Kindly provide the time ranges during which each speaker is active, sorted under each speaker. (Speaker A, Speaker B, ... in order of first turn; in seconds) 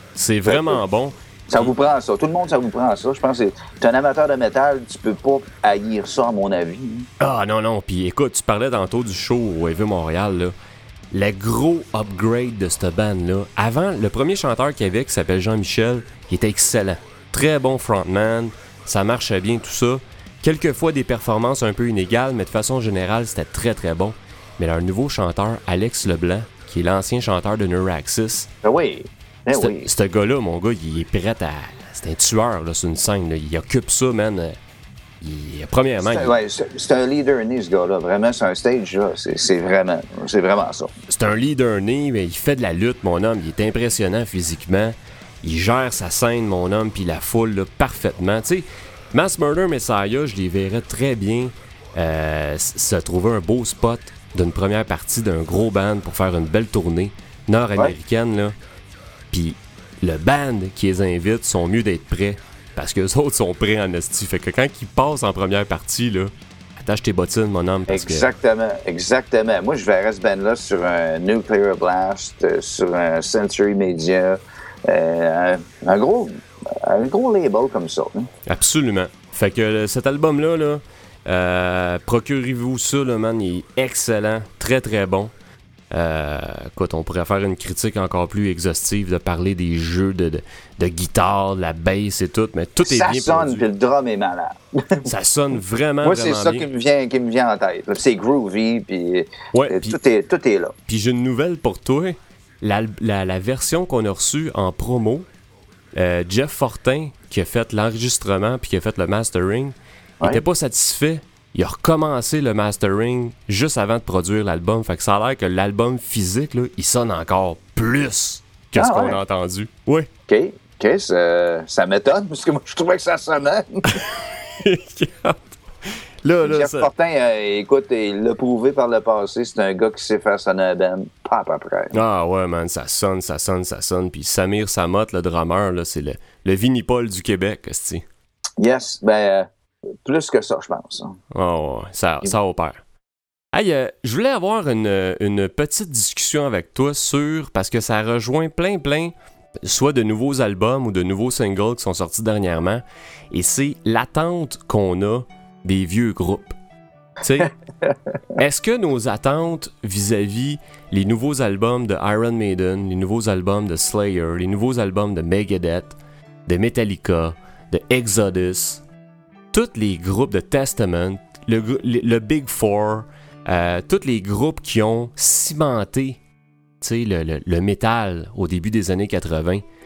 Speaker A: 0.1-1.7, 7.2-10.5, 11.1-28.5, 29.5-34.5, 35.2-36.3, 41.1-58.5, 59.3-68.3, 78.5-85.3, 85.9-93.7, 95.0-96.7, 99.5-100.0, 100.9-105.2, 106.0-120.1, 123.9-126.9, 131.9-138.1, 141.3-142.8, 143.5-156.6, 157.2-157.5, 158.4-168.8, 169.5-176.2, 176.8-179.6
Speaker B: 0.5-0.8, 1.5-7.1, 28.6-29.9, 36.0-40.9, 67.9-78.3, 92.8-95.1, 96.0-100.8, 118.8-119.2, 120.3-124.0, 126.4-132.0, 138.6-139.5, 140.1-141.2, 157.4-158.0